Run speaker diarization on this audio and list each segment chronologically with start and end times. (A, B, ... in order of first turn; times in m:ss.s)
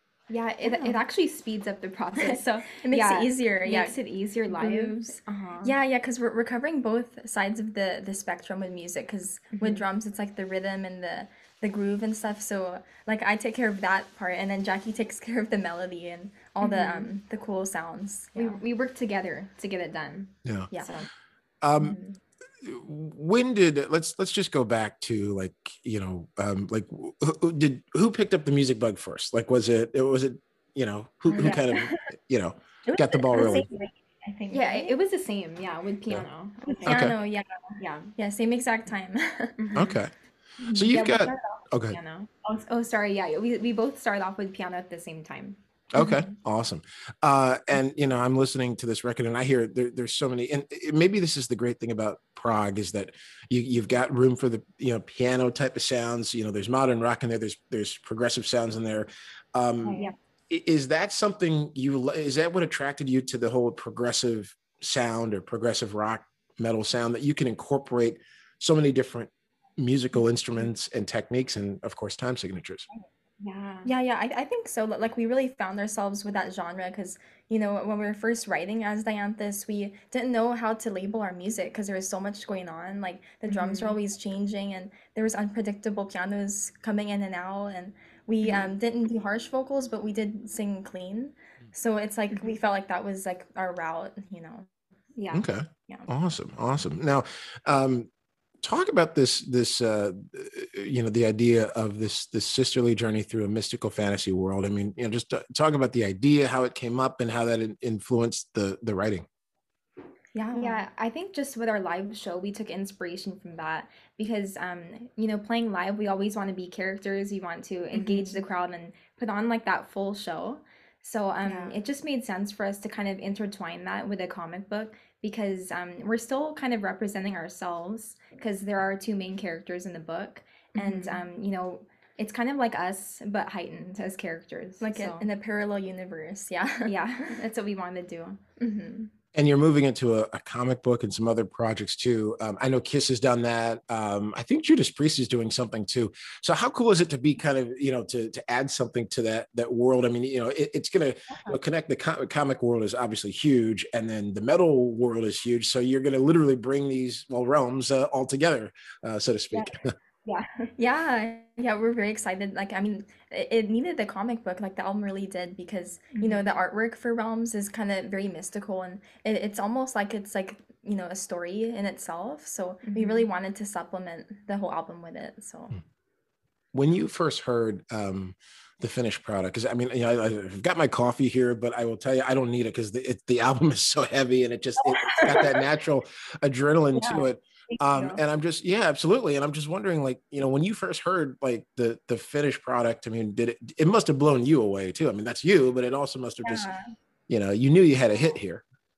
0:00.3-0:05.7 A
0:00.6-0:01.0 B
0:02.2-0:04.0 B
0:04.5-0:18.6 B
0:09.5-0:09.8 A
0:16.6-0:17.1 A
0:18.4-0:21.1 A
0:20.4-0:20.7 C
0:20.7-0:21.0 B
0:21.6-0:22.0 C
0:21.8-0:22.2 B
0:22.6-0:33.7 C
0:31.3-0:31.7 B
0:31.4-0:31.6 A
0:32.9-0:34.9 B
0:34.5-0:37.0 A
0:36.6-0:39.6 B
0:36.9-0:37.2 C
0:37.8-0:38.1 A
0:39.6-0:40.0 A
0:39.8-0:40.1 C
0:40.6-0:45.6 A
0:40.7-0:42.0 C
0:45.9-1:00.0 C
0:59.9-1:00.1 B
0:59.9-1:00.1 A
1:00.5-1:12.9 C
1:13.4-1:13.9 A
1:13.8-1:34.7 B
1:23.5-1:24.0 A
1:28.4-1:28.7 A
1:35.2-1:35.4 A
1:35.3-1:38.1 C
1:38.6-1:49.3 C
1:50.3-1:50.8 B
1:50.5-2:15.2 A
1:57.9-1:58.4 B
2:01.4-2:01.8 B
2:10.8-2:11.2 B
2:14.8-2:16.9 B
2:16.9-2:18.4 A
2:18.6-2:19.1 B
2:19.4-2:40.0 C
2:40.2-2:40.7 A
2:40.8-2:55.8 B
2:46.1-2:46.4 A
2:52.8-2:53.3 A
2:56.7-3:16.7 C
3:04.8-3:05.6 B
3:07.0-3:07.2 B
3:16.4-3:16.8 B
3:17.3-3:18.6 C